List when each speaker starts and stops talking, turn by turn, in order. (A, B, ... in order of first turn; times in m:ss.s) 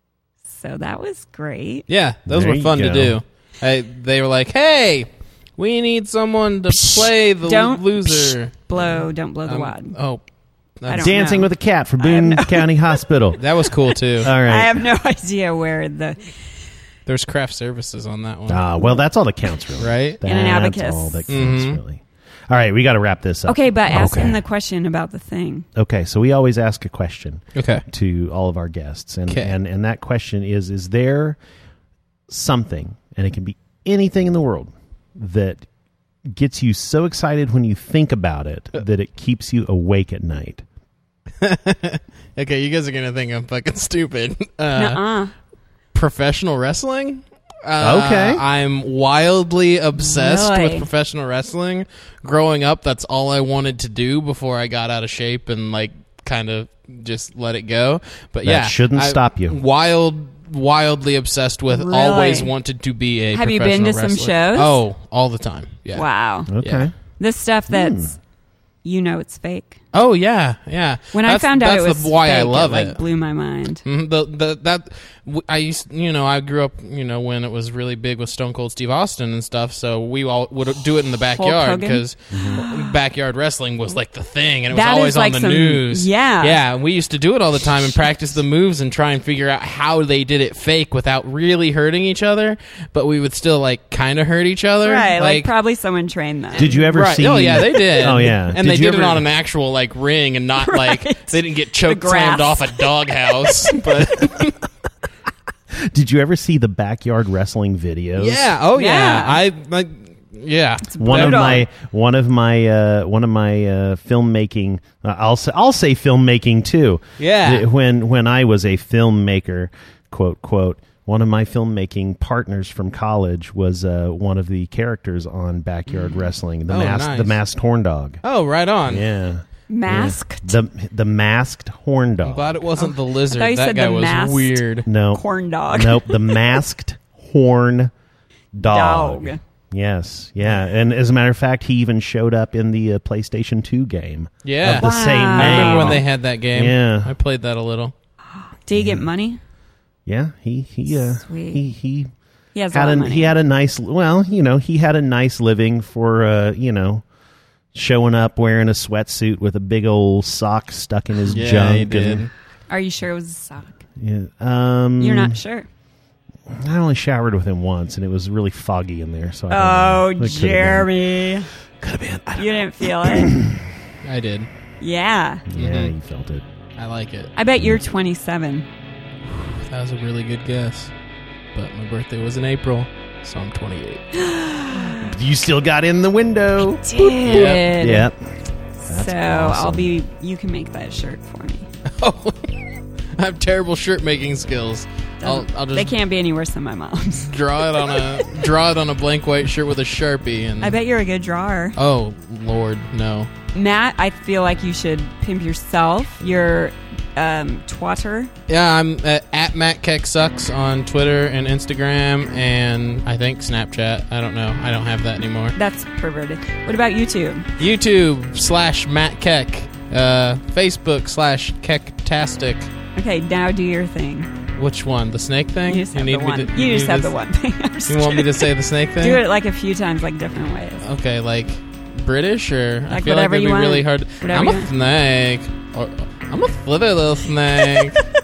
0:00.5-0:01.8 A
0:01.9-0:10.2 B
0:02.3-0:03.2 C
0:07.4-0:10.0 A
0:10.8-0:11.2 B
0:10.9-0:13.0 A
0:11.0-0:13.6 C
0:13.4-0:14.3 B
0:14.2-0:14.8 C
0:14.2-0:16.3 A
0:17.0-0:18.6 B
0:18.5-0:24.4 C
0:19.8-0:20.2 B
0:20.2-0:21.3 A
0:21.3-0:21.8 B
0:23.4-0:25.7 A
0:25.8-0:31.4 C
0:27.5-0:27.8 B
0:29.3-0:29.5 B
0:32.3-0:35.6 C
0:36.3-0:40.6 C
0:41.4-0:45.0 B
0:44.7-0:45.3 A
0:45.9-1:06.0 B
0:47.8-0:48.4 C
0:50.0-0:50.8 A
0:58.4-0:59.6 C
1:01.7-1:02.5 A
1:03.3-1:04.8 A
1:05.9-1:06.5 A
1:06.5-1:06.9 C
1:06.6-1:06.9 B
1:07.2-1:08.2 A
1:07.7-1:08.1 C
1:08.8-1:09.8 A
1:09.9-1:13.0 B
1:11.1-1:13.8 A
1:13.8-1:35.5 B
1:21.3-1:22.9 A
1:22.3-1:22.6 C
1:24.7-1:26.6 A
1:34.8-1:36.8 A
1:36.6-1:39.3 C
1:36.6-1:44.6 B
1:40.6-1:42.8 A
1:43.6-1:44.1 A
1:45.7-1:48.5 C
1:48.2-1:51.6 B
1:48.7-1:49.4 A
1:50.8-1:51.6 A
1:51.0-2:08.2 C
1:57.2-1:57.7 B
2:06.7-2:07.4 B
2:08.2-2:09.0 B
2:08.9-2:12.6 C
2:09.7-2:10.6 A
2:12.2-2:14.9 B
2:12.8-2:16.4 A
2:14.8-2:17.9 C
2:18.6-2:27.1 C
2:18.7-2:19.4 A
2:24.4-2:27.9 B
2:24.8-2:26.0 A
2:28.6-2:29.4 A
2:28.8-2:29.1 C
2:30.0-2:32.1 C
2:30.9-2:31.6 A
2:32.5-2:33.3 A
2:32.7-2:37.0 C
2:37.7-2:42.3 C
2:41.3-2:42.3 B
2:42.7-2:43.8 A
2:44.0-2:45.4 C
2:45.0-2:45.7 A
2:46.5-2:50.9 C
2:49.5-2:51.5 A
2:51.8-2:53.6 C
2:52.4-2:53.4 A
2:54.0-2:54.5 B
2:54.8-2:55.4 A
2:55.5-2:56.4 C
2:55.6-2:55.9 B
2:56.8-2:57.3 B
2:57.4-2:58.7 A
2:59.7-3:00.9 B
3:01.5-3:04.1 B
3:04.1-3:05.1 A
3:04.9-3:08.2 C
3:06.8-3:08.1 A
3:06.9-3:07.7 B
3:08.8-3:11.7 A
3:08.9-3:09.9 C
3:11.9-3:15.9 B
3:15.2-3:18.4 A
3:17.3-3:20.8 B
3:20.6-3:21.8 A
3:21.8-3:23.3 B
3:23.5-3:28.3 A
3:28.5-3:35.6 B
3:35.5-3:37.5 A
3:37.6-3:42.7 B
3:42.9-3:44.3 A
3:44.6-3:47.1 B
3:45.7-3:50.8 A
3:47.9-3:49.2 B
3:50.8-3:58.0 B
3:52.9-3:54.7 A